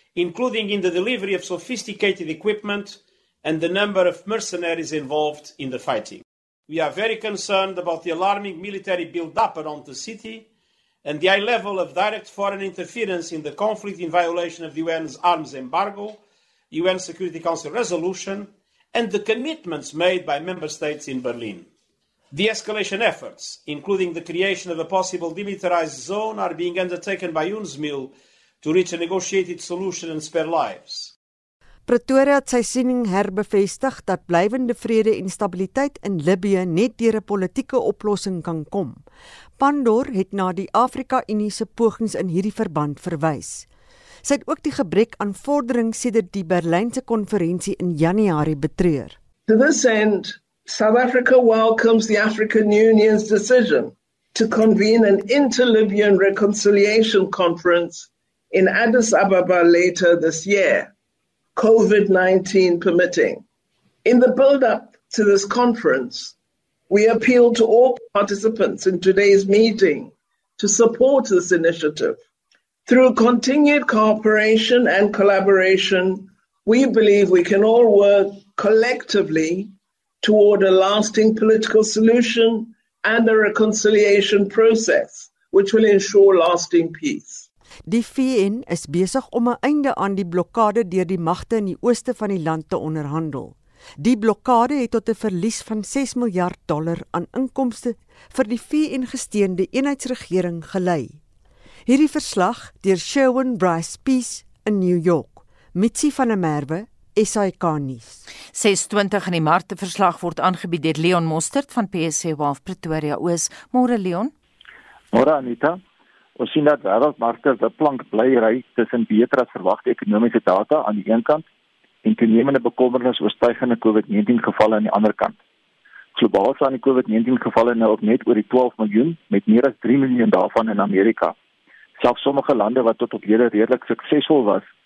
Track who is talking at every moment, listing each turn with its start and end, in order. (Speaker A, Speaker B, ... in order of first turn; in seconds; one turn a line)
Speaker A: 0.1-10.5
Speaker A: 11.0-21.7
Speaker A: 22.3-31.1
Speaker B: 31.9-39.0
Speaker B: 39.6-43.7
Speaker B: 44.2-49.2
Speaker C: 49.5-60.9
Speaker C: 61.6-63.4
Speaker C: 64.0-66.3
Speaker C: 66.9-72.2
Speaker C: 72.9-79.7
Speaker C: 80.2-87.5
Speaker B: 87.9-101.2
Speaker B: 101.9-108.2
Speaker D: 108.5-114.3
Speaker E: 115.1-115.8
Speaker E: 116.4-121.5
Speaker E: 122.0-125.4
Speaker E: 126.2-131.3
Speaker E: 132.0-134.6